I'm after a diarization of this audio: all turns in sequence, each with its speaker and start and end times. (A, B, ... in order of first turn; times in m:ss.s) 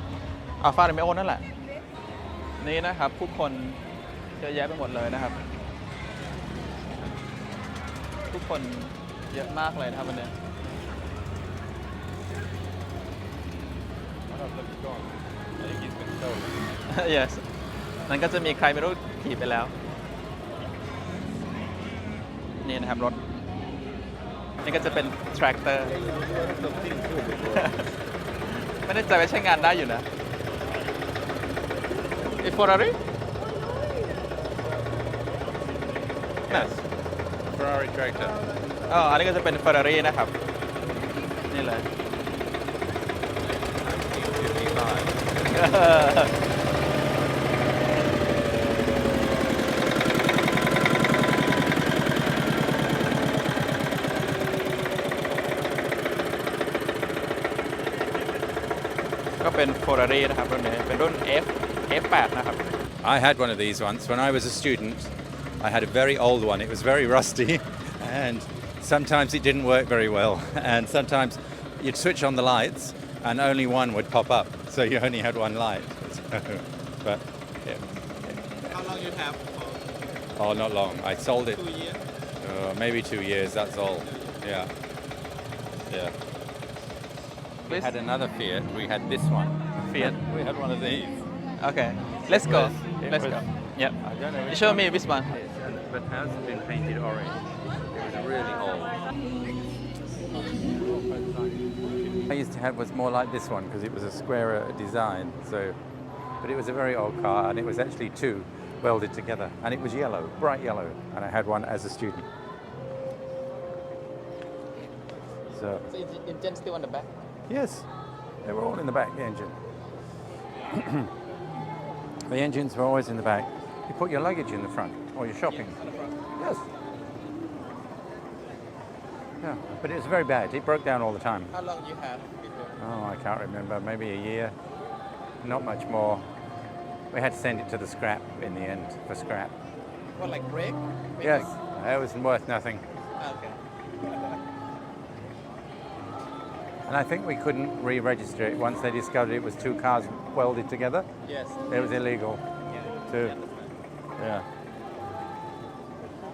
0:00.6-0:01.4 A
0:02.6-0:03.8 A
0:04.4-0:05.4 A
0:08.3-0:10.3 A
0:14.3-0:16.6 B
0:16.9-0:17.4 A
0:18.1-0:19.7 A
0:22.6-0:23.2 A
0:24.6-0:26.0 A
0:26.3-0:27.8 B
0:27.5-0:27.8 A
0:28.8-0:30.1 A
0:32.4-0:33.0 A
0:36.5-0:36.9 B
0:37.5-0:38.4 B
0:38.9-0:40.3 A
0:41.5-0:41.8 A
0:43.9-0:45.2 B
0:45.5-0:46.3 A
0:59.4-1:02.8 A
1:03.0-1:17.8 B
1:18.7-1:19.9 A
1:20.4-1:21.6 B
1:21.5-1:22.0 A
1:22.4-1:24.7 B
1:27.7-1:31.2 B
1:29.9-1:30.2 A
1:31.6-1:34.0 A
1:32.2-1:33.5 B
1:34.0-1:39.0 B
1:34.5-1:35.3 A
1:40.3-1:45.8 B
1:46.4-1:52.3 B
1:55.5-1:55.8 B
1:55.9-1:57.1 A
1:57.5-1:57.9 B
1:58.4-1:59.6 B
2:00.7-2:01.1 B
2:02.3-2:05.8 B
2:05.5-2:06.3 A
2:06.4-2:06.6 B
2:09.4-2:11.5 B
2:11.5-2:12.8 A
2:12.8-2:14.5 B
2:15.4-2:16.2 B
2:17.1-2:19.5 B
2:20.2-2:21.5 A
2:21.2-2:22.8 B
2:23.2-2:23.6 A
2:26.9-2:31.1 B
2:31.3-2:31.9 A
2:31.7-2:32.4 B
2:33.1-2:33.4 B
2:33.2-2:33.7 A
2:34.2-2:34.4 B